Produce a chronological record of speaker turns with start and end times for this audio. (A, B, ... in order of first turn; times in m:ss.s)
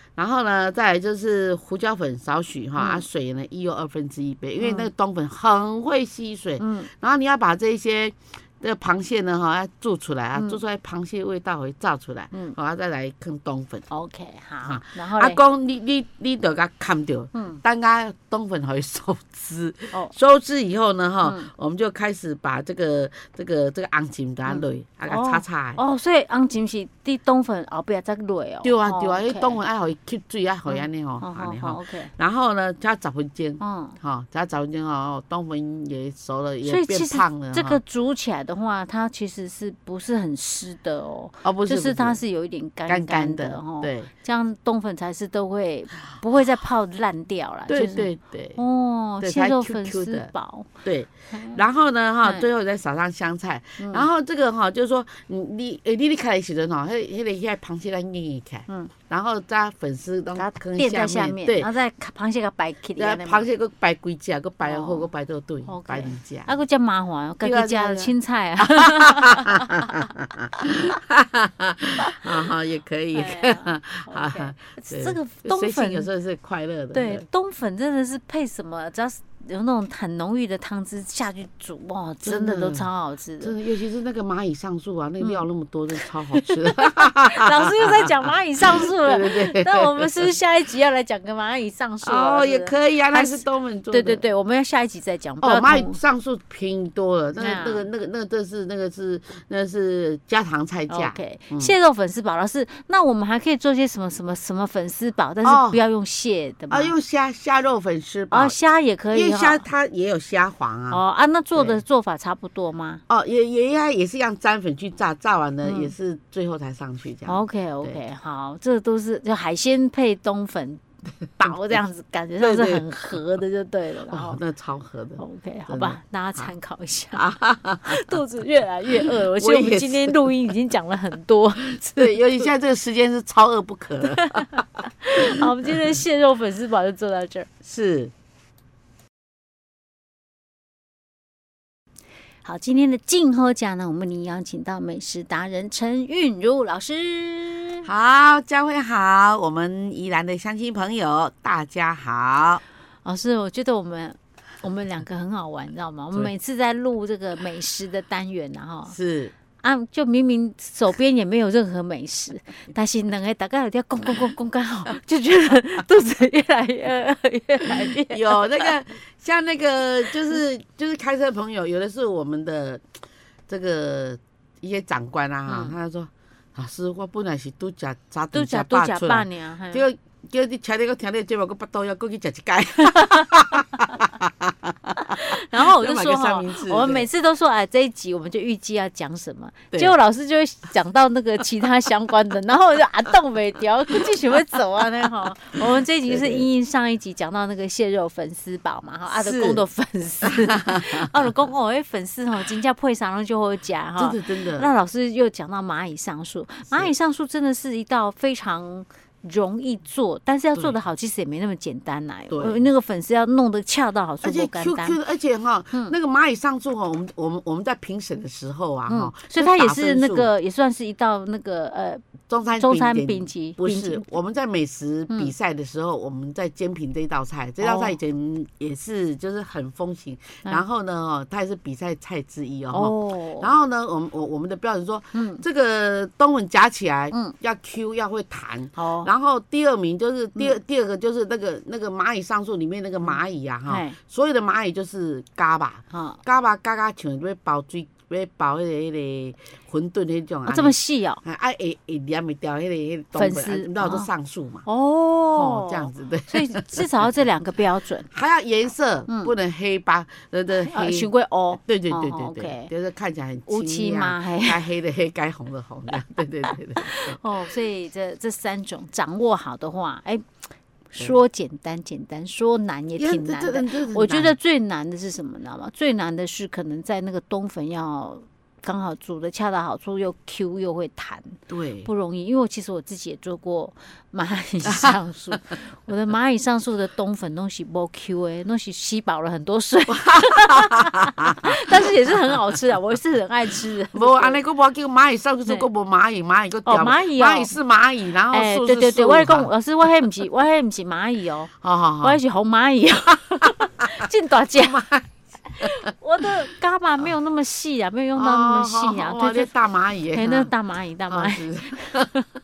0:00.2-0:13.9 A
0:02.8-0:03.0 B
0:04.6-0:04.9 B
0:06.6-0:06.9 B
0:13.9-0:15.4 B
0:14.6-0:25.8 A
0:17.4-0:17.6 B
0:21.2-0:21.5 B
0:24.5-0:29.6 B
0:28.6-0:37.8 A
0:30.7-0:32.1 B
0:33.6-0:34.0 B
0:36.6-0:50.7 B
0:41.4-0:42.2 A
0:42.9-0:44.1 A
0:47.7-0:48.6 A
0:49.2-0:50.3 A
0:50.8-1:01.7 A
0:51.3-0:51.6 B
0:53.8-0:54.1 B
1:00.3-1:03.5 B
1:03.0-1:06.5 A
1:04.6-1:05.1 B
1:05.7-1:09.9 B
1:07.4-1:08.1 A
1:08.7-1:17.2 A
1:13.1-1:16.1 B
1:16.9-1:23.5 B
1:22.2-1:22.9 A
1:23.4-1:28.1 A
1:25.2-1:25.5 B
1:26.0-1:36.0 B
1:28.7-1:30.3 A
1:32.0-1:34.2 A
1:35.4-1:41.7 A
1:37.4-1:37.9 B
1:40.9-1:46.9 B
1:45.4-1:45.8 A
1:46.7-1:48.6 A
1:48.3-1:49.6 B
1:49.1-1:51.0 A
1:50.9-1:53.0 B
1:51.6-1:51.8 A
1:53.1-1:58.0 A
1:55.6-1:55.9 B
1:57.3-2:00.8 B
2:01.4-2:04.4 B
2:01.4-2:01.8 A
2:02.4-2:03.2 A
2:04.1-2:06.5 A
2:05.2-2:07.3 B
2:07.1-2:08.2 A
2:07.8-2:12.4 B
2:09.0-2:10.6 A
2:11.6-2:15.8 A
2:14.2-2:17.5 B
2:17.6-2:18.1 A
2:22.4-2:27.9 B
2:27.8-2:32.6 A
2:33.0-2:39.0 B
2:38.9-2:39.3 A
2:39.6-2:48.7 B
2:47.8-2:52.8 A
2:53.5-3:07.1 A
2:55.5-2:55.7 B
2:58.3-2:59.9 B
3:02.9-3:04.0 B
3:05.0-3:35.0 B
3:09.7-3:10.0 A
3:16.1-3:16.5 A
3:19.1-3:19.6 A
3:20.2-3:21.1 A
3:24.0-3:24.7 A
3:32.3-3:32.6 A
3:34.2-3:40.3 A
3:38.9-3:42.0 B
3:42.3-4:14.7 A
3:42.6-3:44.1 B
3:47.6-3:48.0 B
3:52.7-3:53.5 B
3:55.1-3:55.4 B
3:58.8-3:59.1 B
4:03.7-4:04.0 B
4:05.9-4:06.2 B
4:10.5-4:11.2 B
4:13.1-4:14.1 B
4:14.6-4:18.1 B
4:15.3-4:17.1 A
4:18.1-4:27.2 A
4:20.6-4:22.7 B
4:23.5-4:24.6 B
4:26.9-4:30.2 B
4:30.9-4:54.4 B
4:33.0-4:34.4 A
4:41.5-4:41.9 A
4:44.7-4:44.9 A
4:49.9-4:51.5 A
4:53.9-4:59.5 A
4:56.7-4:57.5 B
4:58.3-5:04.9 B
5:01.6-5:02.2 A
5:04.6-5:05.1 A
5:05.5-5:09.5 B
5:08.2-5:10.5 A
5:10.1-5:12.3 B
5:11.1-5:12.2 A